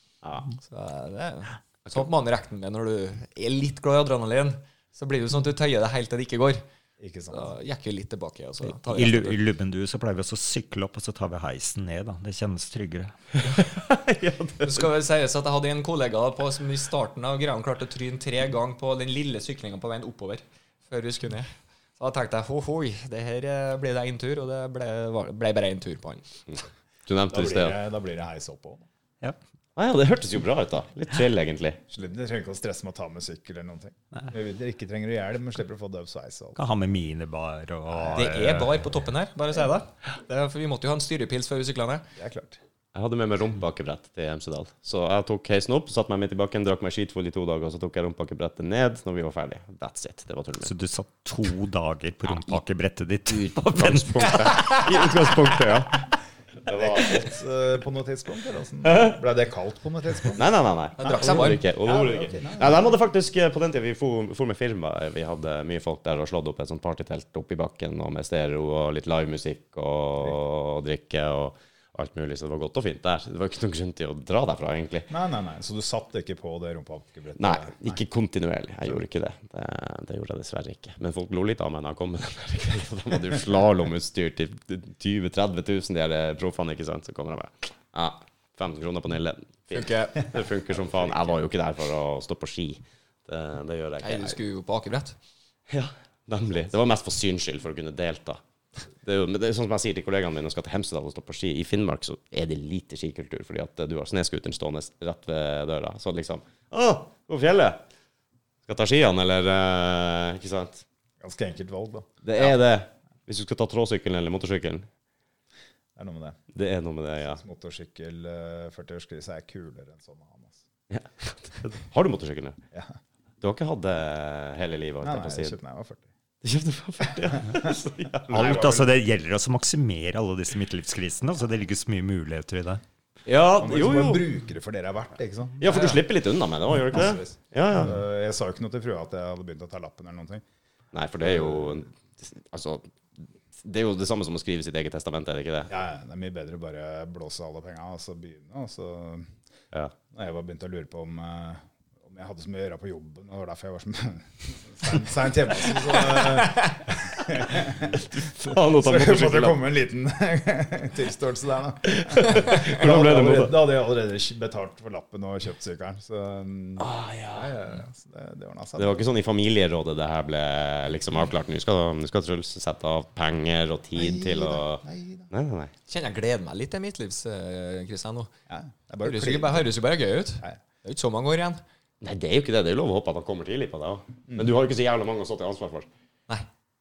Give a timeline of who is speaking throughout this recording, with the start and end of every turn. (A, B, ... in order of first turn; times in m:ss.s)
0:00.2-0:00.5 A
0:00.6-0:06.6 B
0:07.0-0:07.5 C
0:07.3-0:09.4 B
0:08.7-0:13.2 D
0:13.5-0:14.8 A
0:14.6-0:26.3 B
0:27.1-0:27.8 A
0:27.3-0:28.8 C
0:29.8-0:31.8 A
0:31.9-0:36.6 C
0:36.6-0:38.8 D
0:37.9-0:38.2 C
0:38.1-0:42.0 B
0:42.2-0:42.6 C
0:42.9-0:50.7 A
0:50.6-0:54.5 D
0:53.3-0:56.1 A
0:54.4-0:54.9 B
0:56.6-0:57.3 A
0:56.7-1:00.4 C
0:58.8-0:59.2 A
1:00.3-1:15.1 A
1:01.0-1:01.6 B
1:01.0-1:02.9 C
1:15.1-1:18.0 C
1:17.4-1:34.4 A
1:29.7-1:30.3 B
1:30.7-1:31.0 C
1:34.0-1:35.2 B
1:35.7-1:38.4 A
1:39.0-1:47.8 A
1:48.7-1:50.8 A
1:51.2-1:52.5 C
1:52.2-1:54.9 A
1:56.0-1:56.4 C
1:56.5-1:57.4 A
1:57.3-2:00.6 C
2:00.9-2:02.6 A
2:03.4-2:05.6 A
2:05.0-2:06.1 C
2:06.4-2:08.7 A
2:08.3-2:12.8 D
2:08.3-2:08.9 C
2:13.2-2:14.2 A
2:13.6-2:16.0 C
2:15.6-2:18.0 A
2:16.9-2:20.4 C
2:20.9-2:25.7 A
2:21.2-2:21.8 C
2:25.7-2:29.4 C
2:30.1-2:49.0 C
2:37.9-2:39.6 A
2:41.9-2:43.7 A
2:46.8-2:47.6 A
2:48.8-2:55.7 A
2:54.0-2:55.3 C
2:55.9-2:58.3 B
2:58.5-2:59.7 C
2:59.0-3:01.6 B
3:02.0-3:05.9 A